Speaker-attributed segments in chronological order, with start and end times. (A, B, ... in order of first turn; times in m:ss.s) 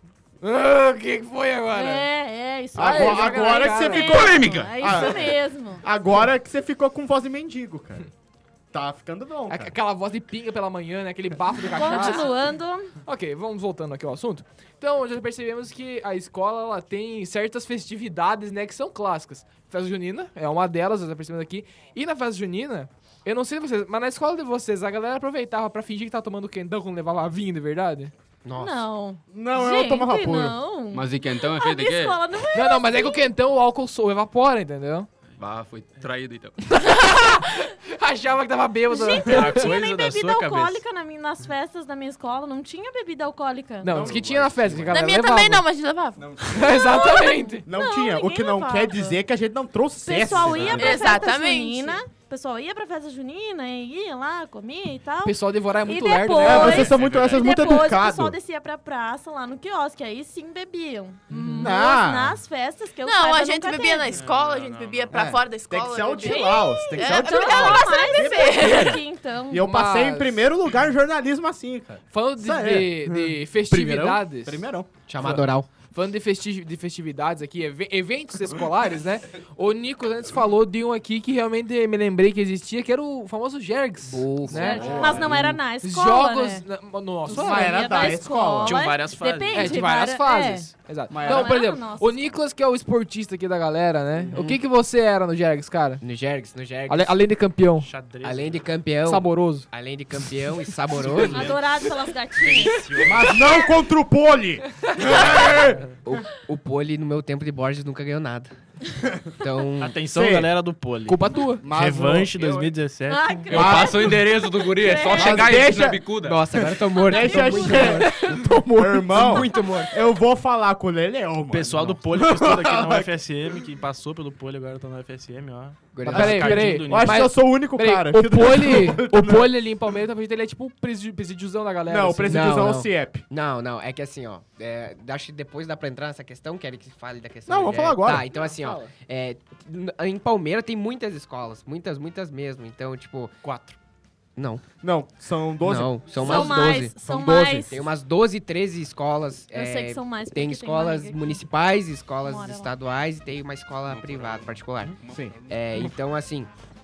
0:00.4-0:02.1 A
0:01.7-0:05.8 B
0:02.7-0:04.1 A
0:02.7-0:08.1 C
0:04.0-0:04.9 D
0:08.7-0:09.7 C
0:09.5-0:12.3 A
0:11.7-0:12.9 B
0:13.0-0:28.1 A
0:28.4-0:28.8 E
0:28.6-0:33.3 B
0:29.3-0:30.6 C
0:30.9-0:32.2 D
0:32.5-0:35.1 A
0:35.4-0:36.8 D
0:36.6-0:39.7 A
0:38.9-0:44.1 B
0:39.2-0:40.8 F
0:43.8-0:45.6 A
0:43.9-0:45.0 C
0:44.9-0:46.3 G
0:46.2-0:46.9 C
0:46.4-0:47.6 A
0:46.6-0:49.2 B
0:47.6-0:51.0 C
0:50.0-1:04.2 B
0:50.7-0:52.0 G
0:55.2-0:56.9 A
0:56.4-0:58.4 C
0:56.9-0:57.4 F
1:01.3-1:01.7 A
1:01.6-1:02.4 C
1:03.0-1:08.9 G
1:04.1-1:05.2 F
1:05.1-1:14.9 C
1:06.2-1:09.7 B
1:09.6-1:10.4 A
1:12.1-1:14.6 A
1:15.1-1:15.7 E
1:15.2-1:25.1 A
1:24.0-1:25.4 E
1:24.5-1:26.6 B
1:24.5-1:25.4 C
1:25.8-1:27.9 A
1:27.3-1:30.7 B
1:27.3-1:28.8 C
1:28.6-1:29.8 F
1:29.5-1:36.0 A
1:31.1-1:31.7 C
1:31.2-1:32.3 B
1:34.3-1:34.6 E
1:36.0-1:37.1 E
1:36.9-1:37.9 A
1:37.8-1:38.6 F
1:38.2-1:41.5 E
1:39.0-1:39.7 A
1:40.9-1:41.6 F
1:41.3-1:42.8 B
1:42.6-1:43.4 F
1:43.0-1:45.8 C
1:45.5-1:46.0 F
1:46.0-1:48.5 E
1:49.0-1:49.3 C
1:49.4-1:50.0 E
1:49.8-1:53.4 F
1:50.1-1:50.5 C
1:51.1-1:51.6 A
1:51.6-1:52.8 C
1:53.1-1:55.6 B
1:53.5-1:56.4 D
1:53.5-1:54.4 C
1:55.1-1:56.1 C
1:56.2-1:58.4 E
1:56.9-2:03.1 C
1:57.1-1:57.6 B
1:57.7-1:59.0 A
1:59.0-2:00.0 E
2:01.5-2:07.2 F
2:05.9-2:06.8 E
2:06.0-2:12.7 A
2:06.1-2:09.5 C
2:11.8-2:13.2 C
2:12.3-2:23.4 E
2:17.4-2:18.3 C
2:18.3-2:18.9 A
2:23.4-2:23.8 F
2:24.4-2:24.6 E
2:24.8-2:27.7 C
2:25.6-2:27.0 E
2:26.2-2:27.8 B
2:27.7-2:35.0 E
2:29.5-2:31.4 B
2:32.2-2:32.7 B
2:33.9-2:35.5 D
2:35.0-2:35.9 C
2:35.5-2:36.5 E